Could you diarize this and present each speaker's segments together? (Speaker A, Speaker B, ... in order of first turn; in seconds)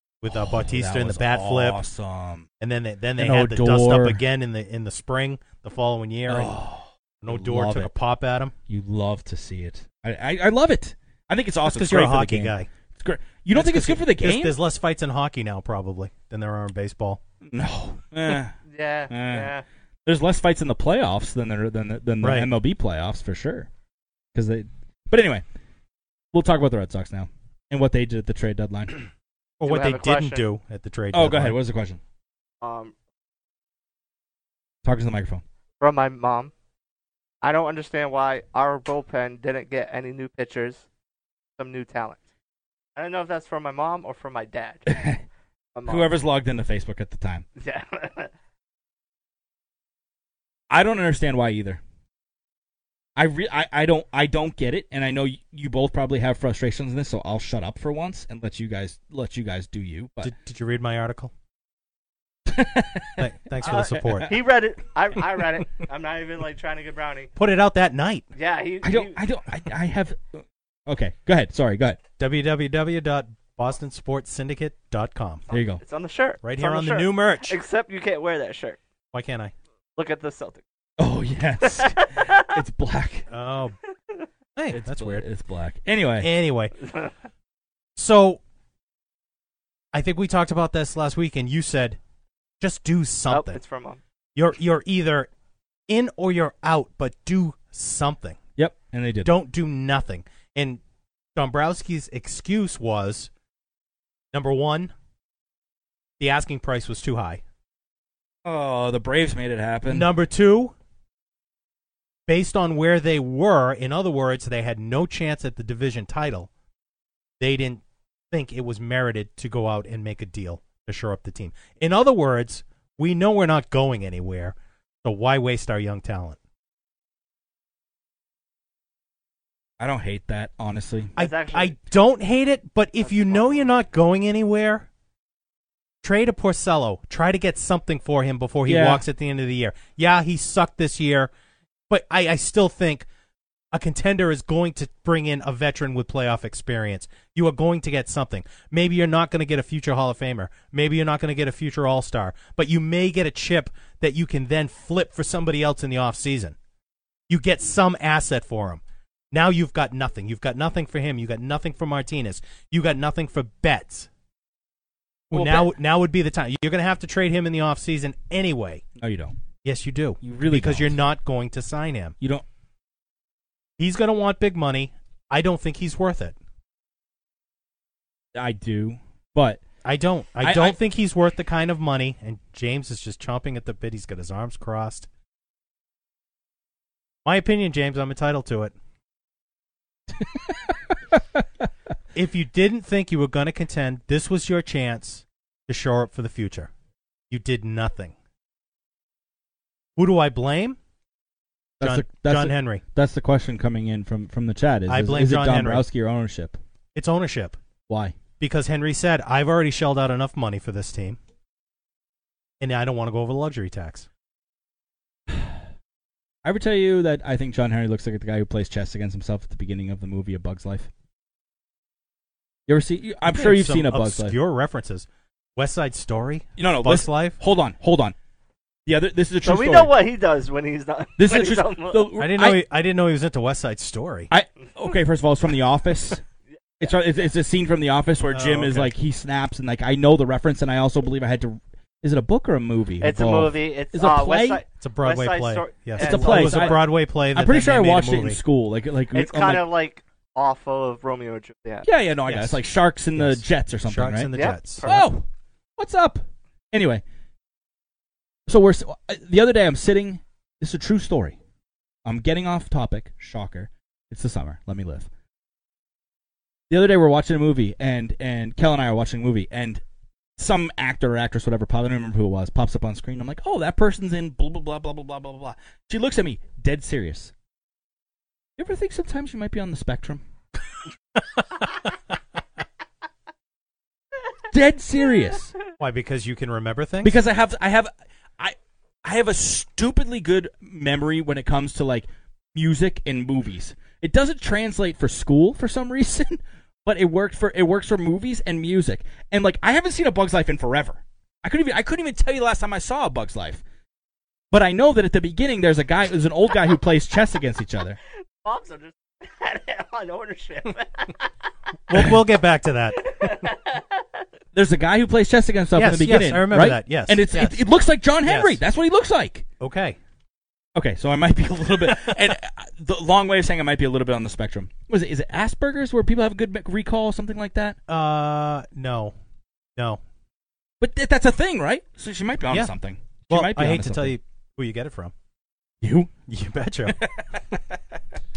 Speaker A: 0.2-1.8, 2.6-6.5, 7.2-8.5, 11.6-12.7, 13.5-17.2, 22.2-22.5, 29.6-31.6, 60.2-61.3, 63.2-64.3, 67.3-68.2, 72.2-75.4, 76.4-77.6, 79.1-79.5, 83.3-83.8, 84.5-85.2, 86.2-86.8, 88.0-88.4, 89.9-92.0, 92.6-93.6, 94.3-95.3, 95.9-98.4, 99.2-100.8, 101.3-103.3, 104.3-104.9, 106.2-107.4, 109.9-110.7, 112.3-116.5, 117.4-126.4, 131.2-134.9, 136.0-141.3, 141.9-143.1, 143.7-156.6, 157.3-158.8, 159.3-164.1, 165.3-168.8, 169.6-172.1, 173.8-176.3, 179.8-185.1, 187.2-188.7, 192.1-196.7, 197.3-198.1, 200.0-200.8, 201.8-202.8, 204.9-205.8, 206.9-207.6, 208.4-211.2, 212.6-214.1, 223.3-227.4, 232.2-234.3, 238.3-238.9, 244.7-248.4, 252.2-252.6, 253.1-254.8, 285.8-287.2, 311.9-313.3, 315.7-317.6, 318.2-318.6, 319.6-320.0, 327.9-329.1, 333.3-335.1, 336.3-337.0
Speaker B: 0.2-2.5, 3.2-4.2, 6.3-7.9, 8.7-14.6, 17.4-18.5, 19.1-19.5, 20.1-23.7, 24.3-25.4, 26.3-29.0, 31.1-32.0, 34.8-35.4, 44.9-45.2, 45.9-47.4, 50.7-51.8, 53.1-60.3, 62.5-64.3, 68.8-72.0, 75.5-75.8, 81.0-83.3, 84.7-86.3, 98.6-99.3, 108.4-110.1, 129.8-131.1, 138.7-139.0, 165.3-165.7, 169.0-169.3, 170.2-171.0, 178.3-179.6, 180.4-180.8, 190.2-191.4, 201.8-206.6, 207.9-208.2, 215.3-215.6, 216.4-220.9, 222.7-224.3, 226.6-228.1, 228.8-229.9, 231.2-232.6, 234.3-236.2, 236.8-244.6, 246.0-249.7, 251.8-254.3, 254.8-255.2, 255.8-257.0, 258.5-261.4, 262.0-265.1, 266.7-269.8, 270.4-277.3, 278.6-280.2, 284.5-285.5, 287.0-303.6, 304.5-308.0, 314.5-319.4, 320.8-327.8, 330.8-334.1, 335.8-336.1, 336.9-337.8
Speaker C: 18.6-19.6, 29.6-30.4, 32.6-32.9, 35.8-36.5, 37.4-40.9, 41.6-42.2, 43.0-45.1, 45.7-46.1, 47.6-48.3, 63.6-67.3, 68.3-69.2, 75.5-78.8, 80.0-80.6, 81.6-82.5, 93.3-94.0, 131.2-131.7, 133.0-133.7, 229.4-232.1, 243.0-246.8, 249.1-251.8, 254.3-255.1, 308.4-311.3, 313.0-314.0